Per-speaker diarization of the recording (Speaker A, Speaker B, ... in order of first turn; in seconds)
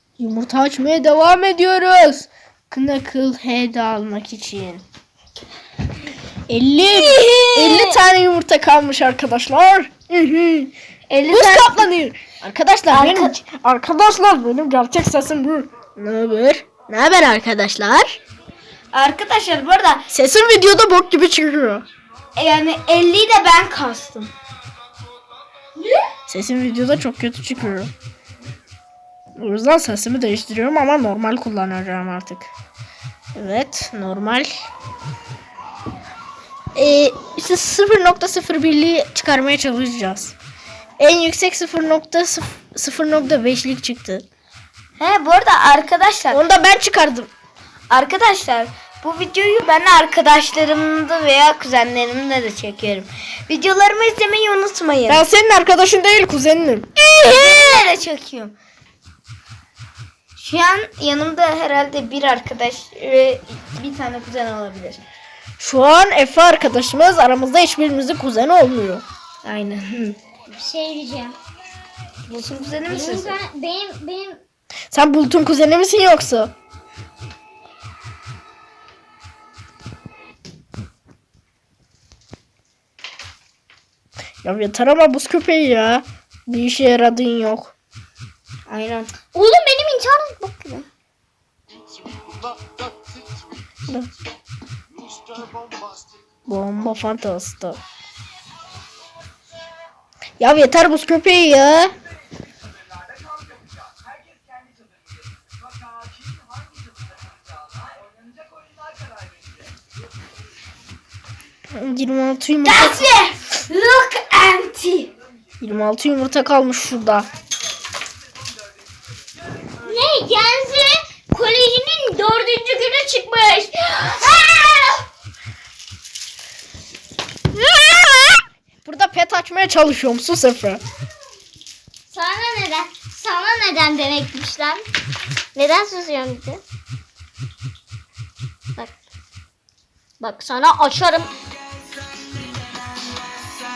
Speaker A: 0.2-4.8, 6.5-10.7, 11.3-18.1, 20.1-21.8, 26.3-27.9, 29.4-32.5, 33.3-34.5, 36.7-40.3, 41.0-44.2, 46.3-47.3, 55.1-56.9, 65.6-69.0, 74.9-76.5, 84.4-87.7, 96.5-97.8, 100.4-101.9, 111.7-113.0, 115.6-117.3, 127.5-130.8
Speaker B: 6.8-8.0, 11.1-11.8, 12.9-13.3, 18.9-20.0, 22.4-24.3, 45.0-46.4, 47.9-55.2, 57.0-58.5, 60.4-65.0, 69.4-70.2, 72.3-73.3, 88.7-89.1, 112.6-115.1
Speaker C: 25.8-26.1, 70.5-71.3, 72.9-74.4, 89.3-90.8, 119.8-125.0, 132.1-134.8, 135.6-136.6, 140.2-141.3